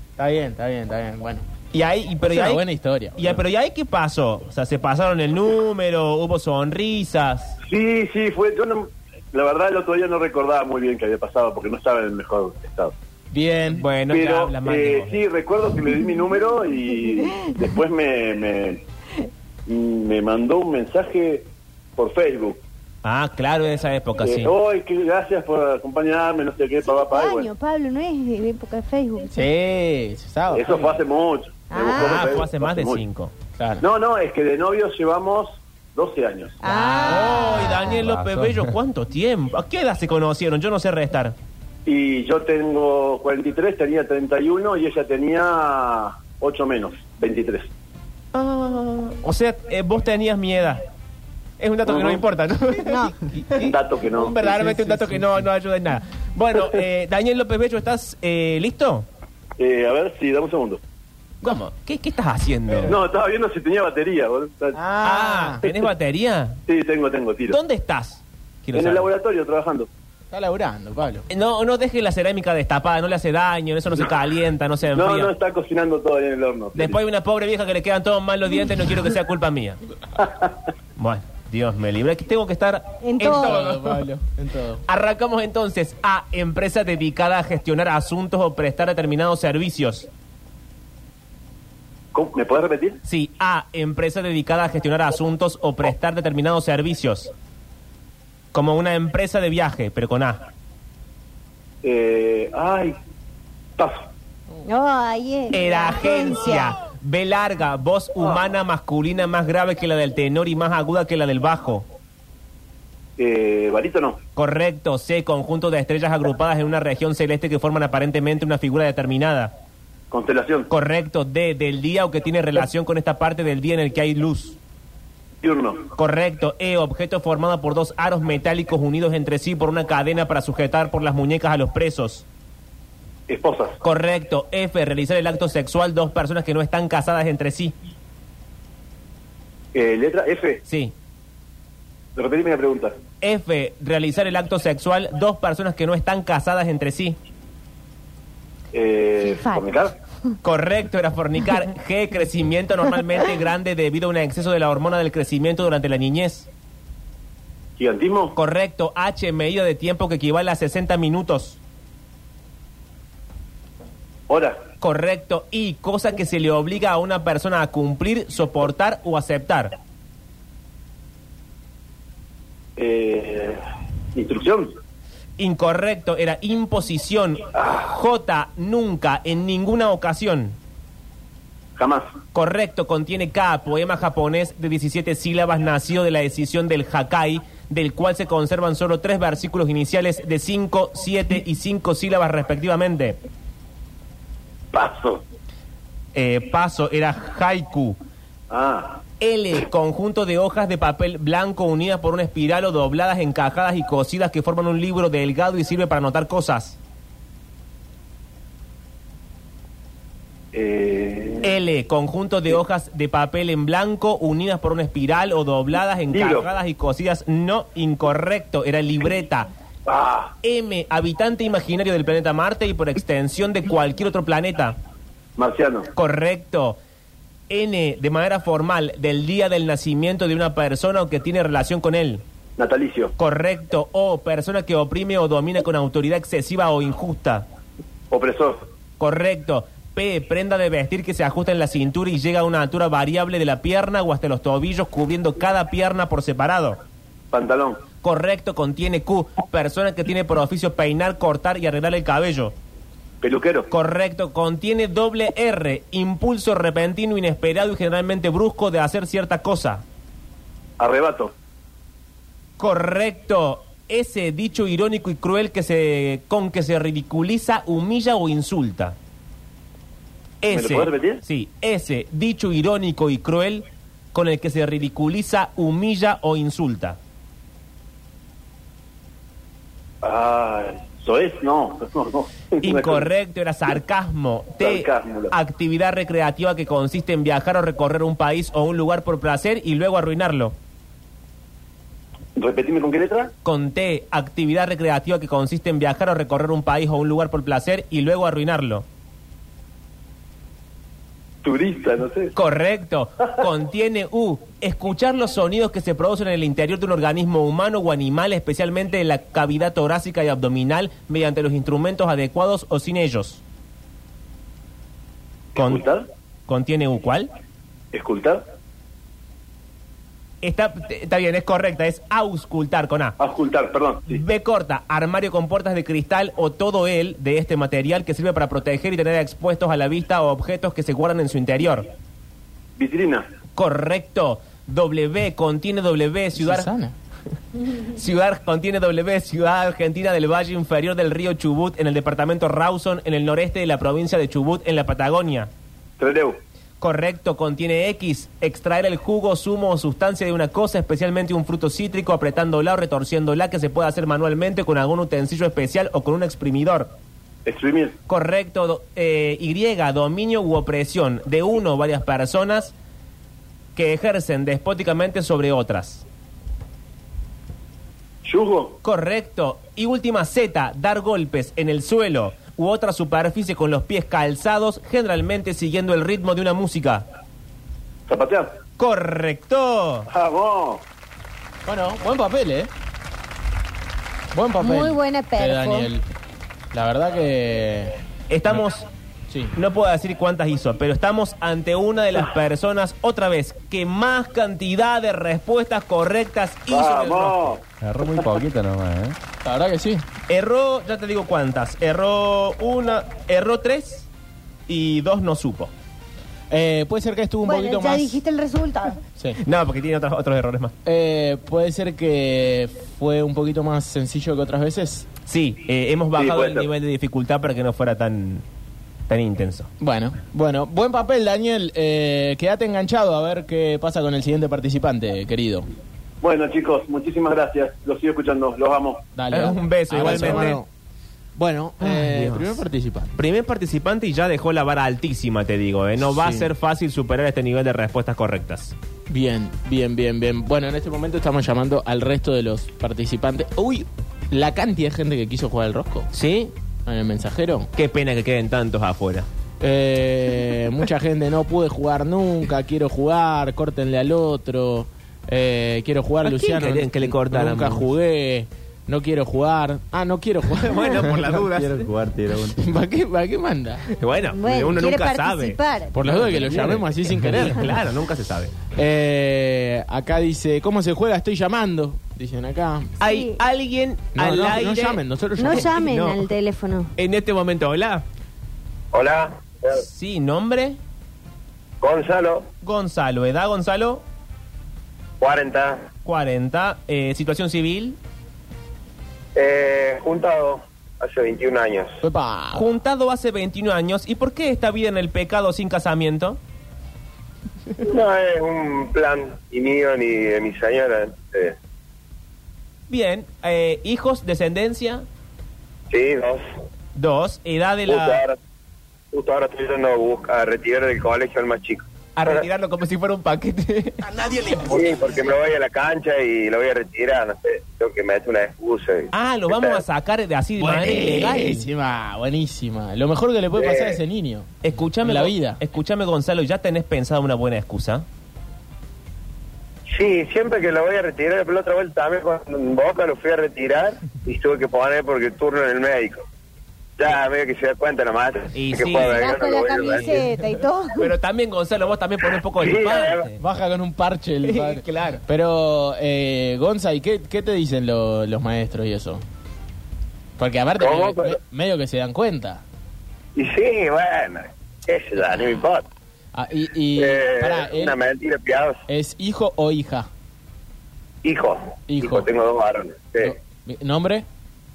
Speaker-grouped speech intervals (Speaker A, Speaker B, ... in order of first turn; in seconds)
Speaker A: 0.2-1.4, 2.2-3.4, 13.3-13.9, 29.3-31.0, 33.6-33.8, 37.1-37.7, 54.4-55.2, 64.7-65.6, 70.3-71.3, 83.2-84.8, 336.4-336.9, 381.7-382.7, 384.3-386.0, 386.7-388.0, 389.3-389.5, 399.4-400.0, 406.5-408.2, 410.9-415.1, 419.8-425.7, 429.1-430.7, 431.4-433.1, 436.0-436.5, 439.1-446.1, 446.9-447.7, 449.6-461.0, 462.6-463.9, 465.9-467.7, 468.8-472.9, 474.1-475.8, 492.0-492.7, 514.2-514.6, 520.6-524.5, 525.0-525.6, 543.4-549.2, 550.4-552.6, 556.3-558.0, 558.9-560.1, 561.9-562.3, 563.2-564.2
Speaker B: 1.7-2.6, 3.2-7.6, 13.8-15.2, 23.0-24.5, 31.9-33.3, 36.6-41.4, 48.3-50.8, 51.6-59.1, 61.4-63.0, 65.0-66.6, 67.5-69.1, 71.3-75.3, 76.8-79.8, 81.0-84.0, 84.9-90.1, 93.0-97.3, 98.5-100.5, 105.5-111.8, 114.4-119.5, 120.7-124.6, 126.0-132.2, 133.8-137.7, 140.7-140.9, 143.2-147.2, 150.4-156.5, 158.4-161.6, 164.8-169.7, 175.4-180.6, 182.3-193.2, 196.2-198.0, 199.2-206.8, 211.4-219.5, 220.4-224.8, 225.9-226.8, 227.5-232.2, 233.2-237.5, 239.0-246.8, 248.0-252.6, 253.7-259.8, 262.6-269.0, 270.4-277.0, 282.6-290.6, 293.4-298.9, 302.4-313.4, 315.6-315.8, 316.5-317.3, 320.4-323.2, 324.1-331.9, 333.6-336.7, 337.9-345.5, 346.8-356.9, 358.1-362.7, 363.8-366.0, 368.8-377.1, 378.8-380.1, 388.3-388.9, 389.5-397.5, 400.3-404.1, 404.7-405.7, 409.4-410.7, 415.3-418.4, 419.1-419.7, 429.3-430.6, 431.8-432.6, 433.2-438.8, 446.1-446.5, 447.8-449.3, 456.2-457.9, 460.6-461.9, 464.0-468.5, 473.0-476.2, 477.0-478.0, 479.7-480.8, 482.6-484.0, 486.0-488.0, 492.5-496.4, 502.9-505.0, 506.9-508.2, 512.2-514.1, 519.1-521.6, 524.6-528.0, 538.5-539.3, 540.0-540.3, 541.0-543.4, 544.4-545.2
Speaker C: 7.7-12.9, 14.1-18.8, 19.7-22.6, 24.2-27.5, 30.5-33.0, 33.8-36.6, 41.9-47.7, 51.9-52.2, 53.6-54.5, 59.6-60.8, 62.9-64.8, 66.7-67.6, 68.7-69.9, 75.0-77.0, 80.2-80.5, 92.1-93.0, 101.8-103.0, 103.8-104.1, 108.2-108.5, 113.2-114.2, 120.1-120.7, 125.4-125.9, 133.3-133.8, 139.7-140.6, 142.2-143.0, 148.7-149.9, 157.8-158.4, 164.3-164.6, 172.8-173.6, 174.2-174.8, 177.6-177.9, 181.8-182.1, 194.7-195.2, 198.5-199.0, 210.5-211.5, 216.1-216.5, 219.9-220.3, 225.4-225.9, 232.6-233.1, 238.1-238.7, 247.3-247.8, 253.2-253.7, 260.8-261.3, 270.5-271.2, 280.0-283.1, 284.6-285.3, 292.4-293.3, 301.4-302.3, 315.5-316.1, 317.9-318.4, 323.2-324.2, 332.8-333.3, 346.0-346.4, 357.4-358.0, 368.2-368.8, 378.1-378.6, 380.1-380.8, 396.7-397.6, 416.2-416.7, 426.2-429.1
Speaker D: 26.8-29.4, 31.7-32.4, 36.6-38.0, 52.8-53.1, 83.0-83.6, 104.6-106.8, 384.6-385.9, 407.4-409.0, 464.4-465.9, 473.0-473.4, 475.4-476.9, 539.1-541.1
Speaker E: 37.9-38.7, 397.8-399.2, 461.2-462.6
Speaker F: 478.9-479.8, 481.8-482.5, 485.2-485.9, 489.4-492.0, 497.8-501.6, 505.9-506.4, 507.9-508.4, 509.1-512.4, 514.7-519.8, 523.5-524.0, 529.9-536.2, 537.0-540.2, 542.6-543.3, 550.8-551.4, 553.4-555.9, 557.0-558.8, 561.2-563.3